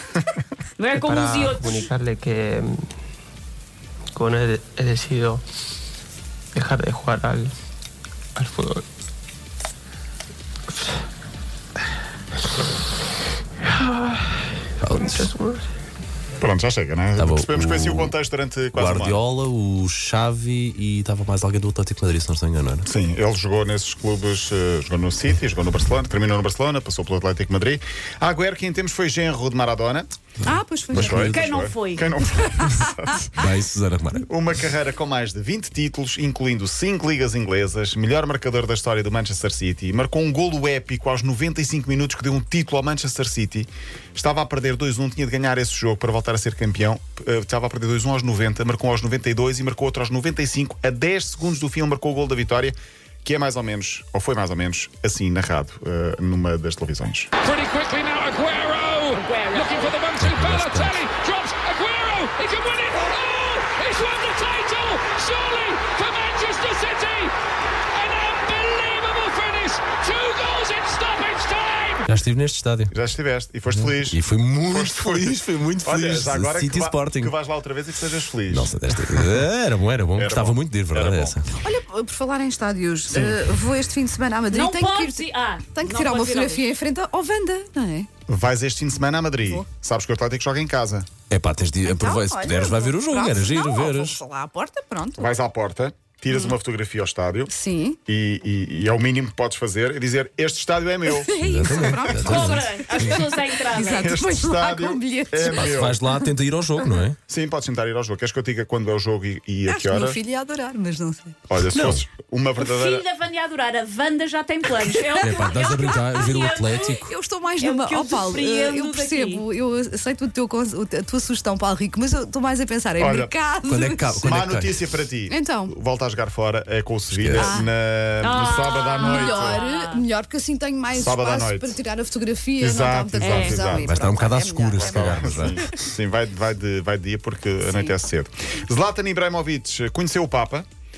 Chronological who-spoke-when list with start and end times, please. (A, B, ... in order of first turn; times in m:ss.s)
0:00.8-0:01.9 A
0:01.0-0:02.9 B
0:04.1-0:05.4 B
0:06.6-0:07.6 B
0:08.4-0:08.8 B
0:13.6-0:15.7 B
0:14.8-0:15.3 C
0:16.4-0:19.2 D
0:17.2-0:18.1 C
0:18.7-0:22.9 C
0:22.8-0:30.1 D
0:30.4-0:31.3 E
0:30.9-0:33.4 D
0:30.9-0:31.5 C
0:31.2-0:32.1 A
0:32.3-0:32.9 E
0:33.4-0:34.3 C
0:34.2-0:57.3 D
0:57.5-0:59.2 F
0:59.2-1:00.0 A
1:00.0-1:07.3 F
1:00.2-1:01.1 C
1:08.0-1:12.0 F
1:12.1-1:12.9 C
1:12.9-1:18.8 D
1:13.7-1:17.3 C
1:18.5-1:21.5 C
1:20.2-1:21.4 D
1:21.6-1:28.1 E
1:23.1-1:23.4 D
1:24.5-1:26.7 A
1:28.3-1:31.1 D
1:31.3-1:34.2 C
1:31.8-1:35.3 E
1:35.2-1:37.5 D
1:37.5-1:38.0 E
1:38.1-1:41.8 D
1:41.1-1:46.3 E
1:41.4-1:42.7 C
1:42.1-1:44.2 A
1:44.0-1:46.0 D
1:45.4-1:47.2 C
1:47.3-1:50.2 D
1:49.6-1:51.4 E
1:51.5-1:53.1 D
1:51.7-1:52.0 C
1:52.6-1:57.0 A
1:55.2-1:57.1 C
1:57.1-2:04.2 E
1:57.6-1:59.4 A
2:03.0-2:03.3 D
2:03.7-2:04.8 C
2:04.2-2:09.6 D
2:05.3-2:05.7 E
2:07.1-2:07.5 C
2:07.3-2:07.7 E
2:08.2-2:10.0 A
2:09.0-2:15.6 E
2:10.9-2:11.8 D
2:12.6-2:14.0 D
2:13.2-2:13.6 A
2:13.6-2:15.7 C
2:14.8-2:20.7 D
2:17.6-2:17.9 E